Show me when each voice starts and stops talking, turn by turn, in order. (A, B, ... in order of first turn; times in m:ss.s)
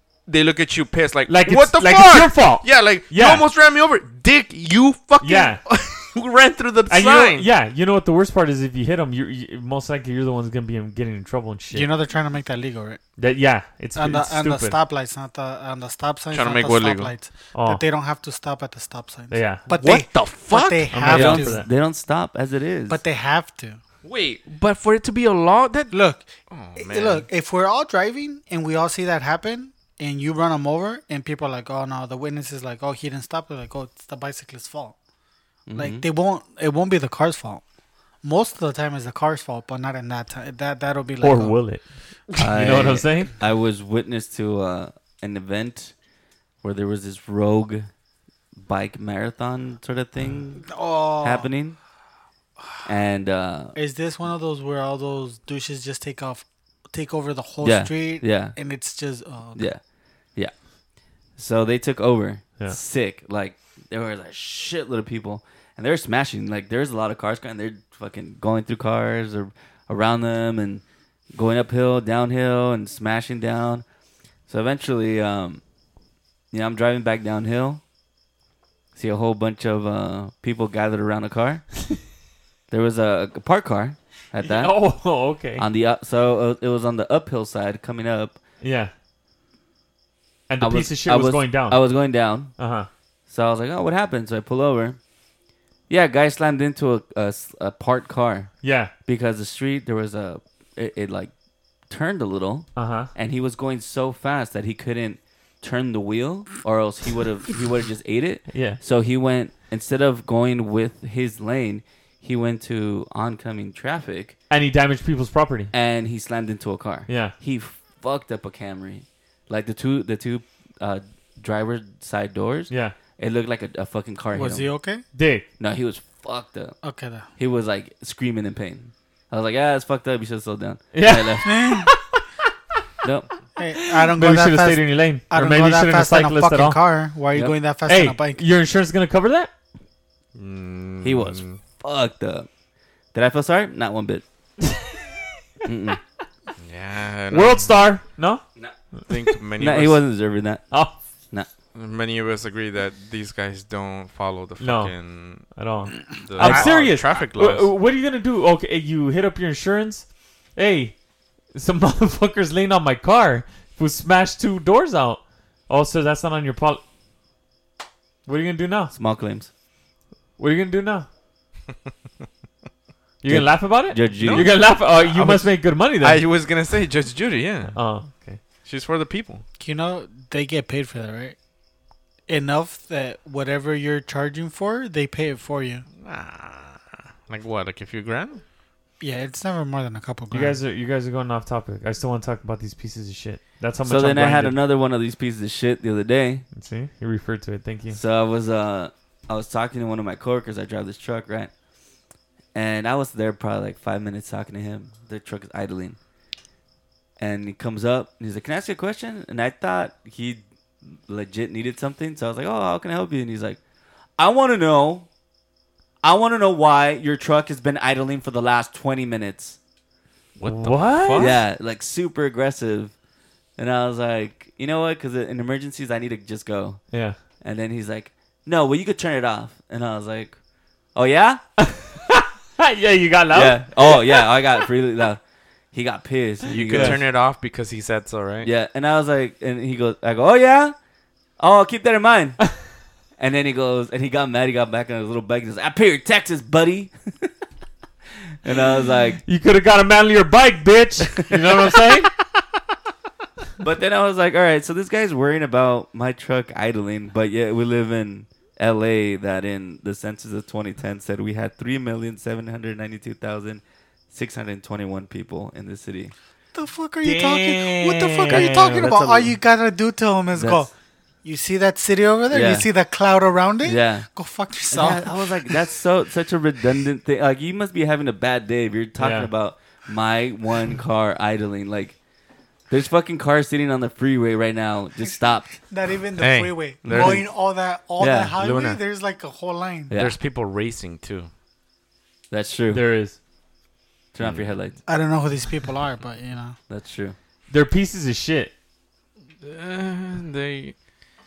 0:00.3-0:07.5 A
0:01.3-0:03.4 B
0:05.2-0:05.6 B
0:06.9-0:11.9 B
0:11.7-0:13.0 C
0:13.2-0:14.8 B
0:13.9-0:21.6 C
0:16.3-0:17.1 A
0:17.5-0:17.8 B
0:19.3-0:19.7 B
0:19.7-0:20.9 A
0:20.9-0:21.7 B
0:21.1-0:23.0 D
0:22.9-0:23.8 C
0:24.0-0:26.0 A
0:25.9-0:35.0 C
0:26.5-0:27.2 A
0:35.7-0:36.0 D
0:35.7-0:37.6 C
0:38.2-0:41.6 C
0:41.2-0:43.3 B
0:42.4-0:45.9 D
0:46.6-0:47.9 D
0:48.6-0:51.8 D
0:50.6-0:51.5 C
0:52.8-0:53.7 D
0:53.7-0:59.7 C
0:57.6-0:58.6 D
0:59.6-0:59.8 D
1:01.4-1:13.8 D
1:14.5-1:15.6 D
1:16.5-1:17.8 D
1:18.9-1:21.6 D
1:22.7-1:24.8 D
1:24.4-1:25.6 B
1:25.6-1:28.4 D
1:28.6-1:28.9 B
1:30.5-1:31.8 B
1:30.6-1:32.5 D
1:32.6-1:32.9 B
1:33.3-1:35.0 D
1:35.9-1:38.5 D
1:38.6-1:38.9 B
1:39.0-1:41.3 D
1:41.9-1:54.4 D
1:42.8-1:43.1 B
1:48.5-1:48.8 B
1:54.5-1:55.7 B
1:55.7-2:04.7 D
1:57.1-1:57.3 B
2:02.7-2:03.0 B
2:04.3-2:05.0 C
2:05.1-2:05.4 B
2:05.6-2:06.8 D
2:06.8-2:07.3 C
2:07.4-2:11.4 D
2:10.9-2:12.0 B
2:11.4-2:11.9 C
2:13.0-2:13.3 D
2:13.6-2:18.4 C
2:14.0-2:16.8 B
2:17.9-2:19.5 B
2:20.3-2:21.6 A
2:21.0-2:22.5 D
2:23.1-2:24.2 D
2:25.6-2:26.0 D
2:26.6-2:27.7 A
2:27.3-2:28.4 B
2:29.1-2:30.0 A
2:29.6-2:30.7 D
2:30.7-2:31.0 B
2:31.7-2:37.7 A
2:34.6-2:41.0 B
2:41.5-2:46.8 B
2:48.2-2:48.9 B
2:48.9-2:49.5 D
2:50.4-2:51.1 B
2:53.2-2:56.2 B
2:53.2-2:54.5 D
2:54.2-2:57.7 A
2:57.7-2:58.4 B
2:58.6-2:59.4 A
2:59.6-3:01.4 C
3:02.3-3:05.8 C
3:06.0-3:08.4 A
3:09.0-3:10.6 C
3:10.3-3:14.6 B
3:13.8-3:16.4 D
3:16.5-3:18.0 B
3:17.9-3:21.5 D
3:22.5-3:26.0 D
3:27.2-3:33.6 D
3:34.2-3:35.1 D
3:36.0-3:39.6 D
3:40.4-3:41.4 A
3:40.4-3:41.3 B
3:41.2-3:42.9 D
3:43.6-3:46.8 D
3:46.9-3:47.2 B
3:47.4-3:50.4 D
3:50.9-3:51.4 D
3:51.8-3:54.3 B
3:53.3-3:55.2 D
3:55.7-3:57.0 D
3:56.5-3:57.0 B
3:56.5-3:58.5 A
3:58.4-4:00.7 D
4:01.4-4:02.4 D
4:03.2-4:07.3 D
4:08.4-4:09.2 D
4:09.2-4:12.1 B
4:13.6-4:26.1 D
4:26.5-4:30.7 C
4:27.0-4:28.8 B
4:28.3-4:29.4 D
4:30.3-4:30.6 D
4:31.2-4:35.2 C
4:32.3-4:32.7 D
4:33.6-4:34.1 D
4:34.7-4:42.0 D
4:39.0-4:39.3 B
4:42.7-4:45.5 D
4:45.6-4:49.9 C
4:46.2-4:47.2 A
4:46.8-4:47.3 D
4:48.0-4:48.3 D
4:48.4-4:48.8 A
4:49.9-4:50.2 D
4:49.9-4:51.3 A
4:52.3-4:52.8 D
4:52.7-4:53.2 B
4:54.1-4:54.8 D
4:54.2-4:54.5 A
4:54.9-4:56.6 C
4:56.7-4:57.2 D
4:57.5-4:58.5 B
4:59.4-5:00.7 A